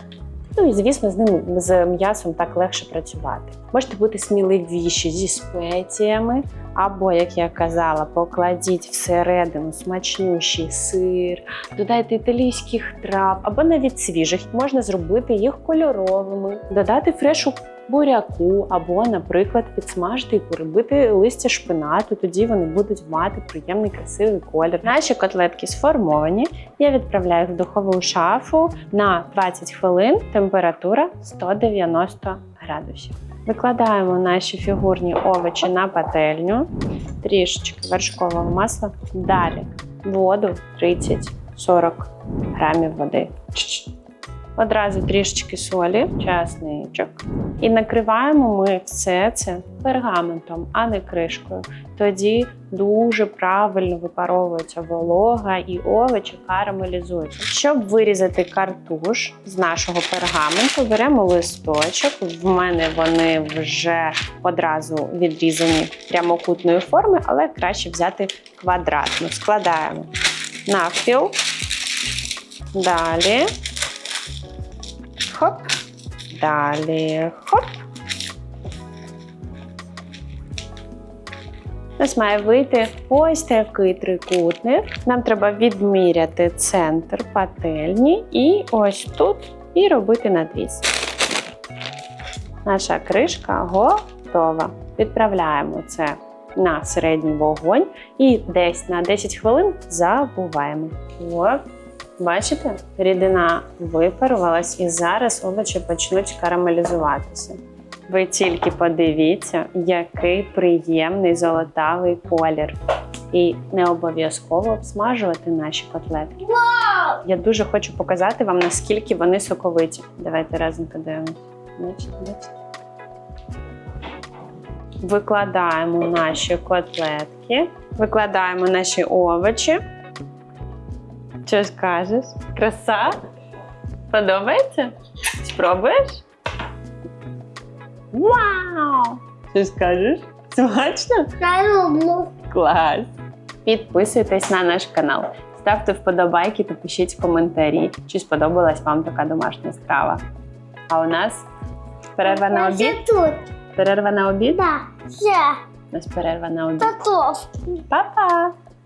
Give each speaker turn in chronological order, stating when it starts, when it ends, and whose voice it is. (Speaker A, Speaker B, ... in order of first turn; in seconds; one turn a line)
Speaker A: 0.5-36.7
Speaker A: 37.2-43.9
Speaker A: 44.6-70.1
Speaker A: 70.7-71.4
Speaker A: 72.7-73.5
Speaker A: 75.3-75.7
Speaker A: 76.3-77.8
Speaker A: 82.0-90.8
Speaker A: 92.6-101.6
Speaker A: 102.2-112.8
Speaker A: 113.3-116.4
Speaker A: 117.1-122.5
Speaker A: 125.0-129.8
Speaker A: 131.4-133.1
Speaker A: 134.1-136.2
Speaker A: 138.1-141.3
Speaker B: 141.4-142.3
Speaker A: 142.4-143.1
Speaker A: 143.6-150.2
Speaker A: 150.9-151.4
Speaker A: 152.2-153.0
Speaker B: 152.2-153.4
Speaker A: 153.7-154.8
Speaker B: 154.8-155.6
Speaker A: 155.9-156.9
Speaker B: 156.8-157.6
Speaker A: 157.9-158.5